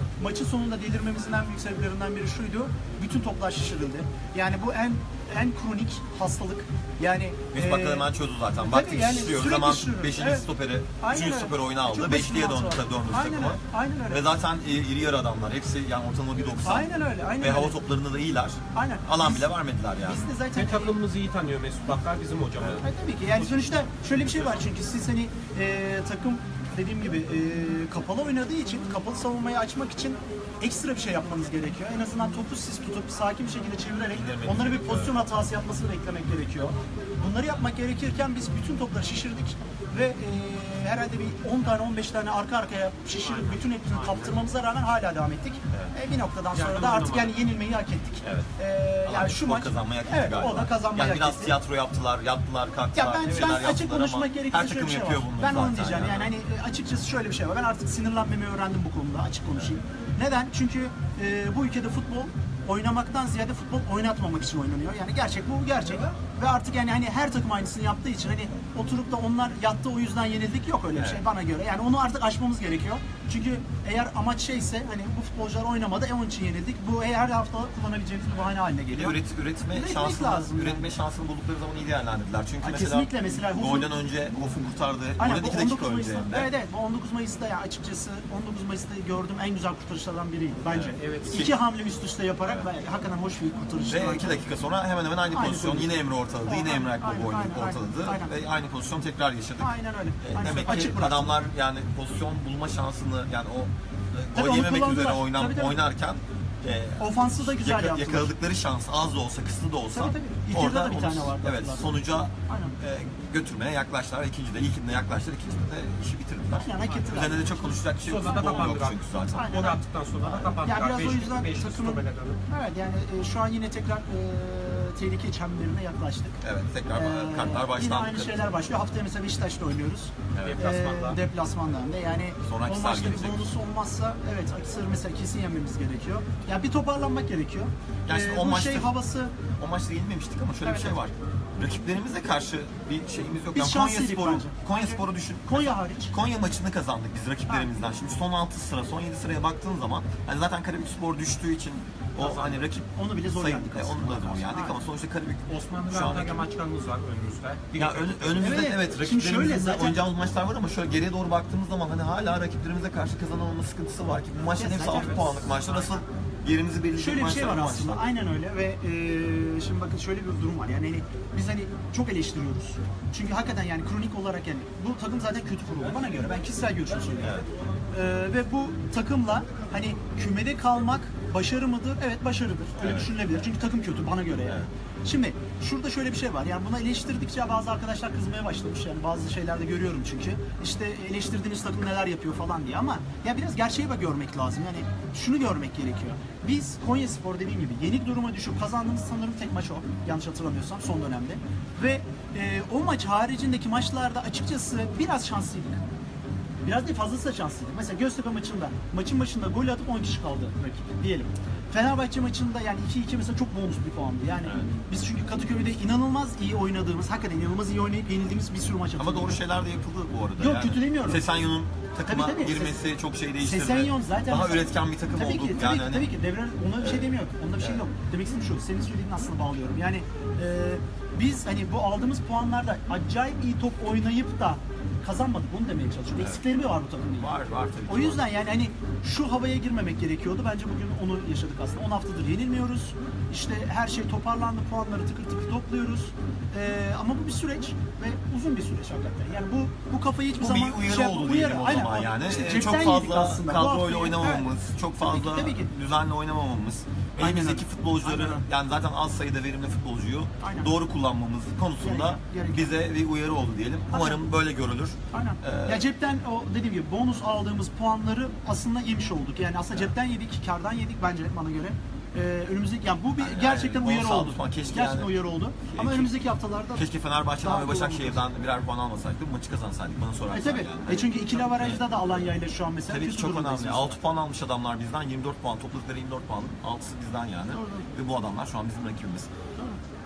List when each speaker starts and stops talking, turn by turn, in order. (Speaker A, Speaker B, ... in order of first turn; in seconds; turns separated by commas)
Speaker A: 0.2-10.5, Speaker B: 7.5-20.2, Speaker A: 11.0-14.3, Speaker A: 16.6-17.8, Speaker A: 18.7-21.0, Speaker C: 20.5-23.6, Speaker A: 22.8-51.6, Speaker B: 34.1-35.2, Speaker C: 43.2-44.5, Speaker C: 46.5-47.4, Speaker B: 48.2-48.5, Speaker B: 49.0-56.3, Speaker A: 52.9-79.2, Speaker B: 70.9-71.2, Speaker B: 78.9-86.5, Speaker A: 79.7-80.9, Speaker A: 82.6-83.9, Speaker A: 85.2-94.4, Speaker B: 90.7-91.5, Speaker C: 91.0-91.4, Speaker B: 93.8-120.5, Speaker A: 95.3-98.3, Speaker A: 99.6-101.5, Speaker A: 104.3-105.8, Speaker A: 107.0-108.3, Speaker A: 109.9-112.8, Speaker A: 116.5-118.7, Speaker C: 118.0-122.4, Speaker A: 119.3-119.8, Speaker A: 120.6-126.4, Speaker B: 126.4-128.5, Speaker A: 126.9-139.3, Speaker B: 130.3-130.7, Speaker C: 130.4-131.2, Speaker B: 132.4-133.5, Speaker B: 138.0-138.9, Speaker B: 139.5-156.5, Speaker A: 140.6-141.0, Speaker A: 143.5-146.1, Speaker C: 152.2-152.7, Speaker A: 152.8-154.8, Speaker C: 155.5-158.6, Speaker B: 157.7-168.0, Speaker A: 158.4-160.0, Speaker A: 164.6-165.3, Speaker C: 164.8-166.0, Speaker A: 166.9-177.4, Speaker B: 177.2-177.5, Speaker A: 177.9-205.8, Speaker B: 182.8-183.1, Speaker A: 206.6-219.4, Speaker B: 219.0-226.1, Speaker A: 220.4-221.2, Speaker A: 222.0-222.8, Speaker A: 223.4-237.3, Speaker B: 226.8-227.8, Speaker B: 236.2-236.4, Speaker B: 237.2-238.2, Speaker A: 237.9-255.7, Speaker B: 250.4-265.9, Speaker A: 257.2-258.4, Speaker A: 260.4-260.7, Speaker A: 261.8-262.7, Speaker A: 263.9-264.2, Speaker A: 265.1-276.9, Speaker B: 273.2-276.2, Speaker B: 276.7-281.9, Speaker A: 277.4-278.2, Speaker A: 280.3-284.0, Speaker B: 282.9-289.3, Speaker A: 287.5-287.9